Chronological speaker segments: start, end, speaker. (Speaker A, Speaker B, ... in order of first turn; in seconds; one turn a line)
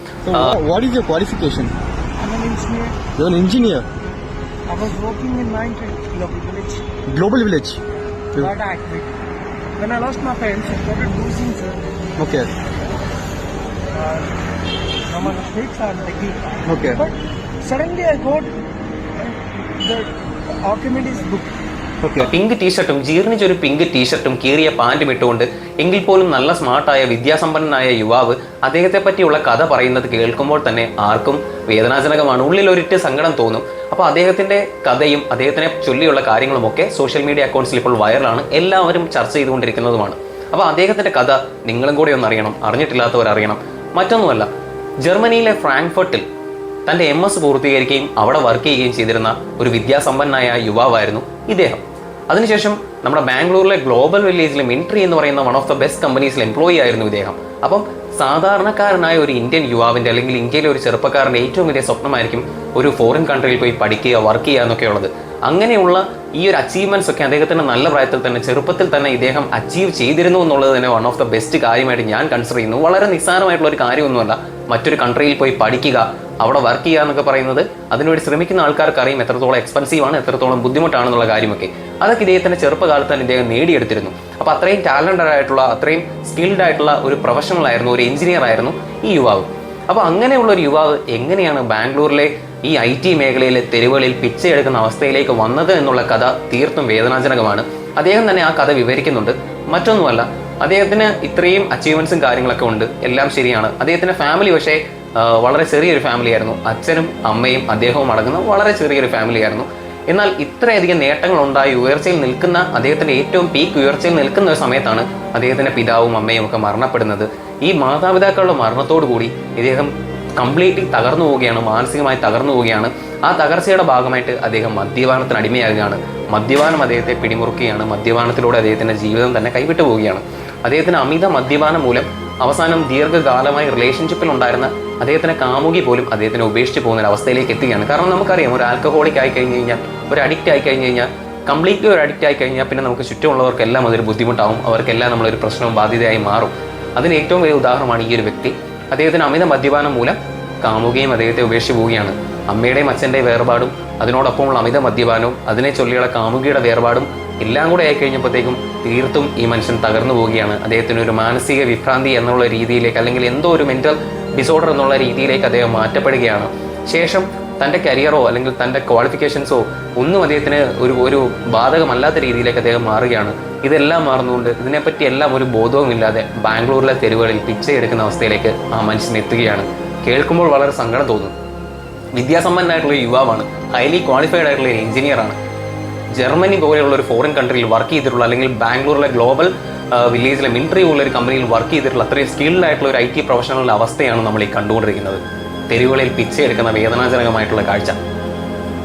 Speaker A: 0.3-1.7
Speaker B: 2.2-3.0
Speaker A: 3.2-3.9
Speaker B: 4.7-6.9
Speaker A: 7.1-7.8
Speaker B: 8.4-9.2
Speaker B: 9.8-11.8
Speaker A: 12.2-12.5
Speaker B: 13.9-14.3
Speaker B: 15.1-18.6
Speaker A: 16.6-17.0
Speaker B: 19.1-21.5
Speaker A: 22.0-22.3
Speaker C: 22.2-44.5
Speaker C: 45.0-46.3
Speaker C: 46.9-181.3
Speaker C: 182.2-185.4
Speaker C: 186.1-198.0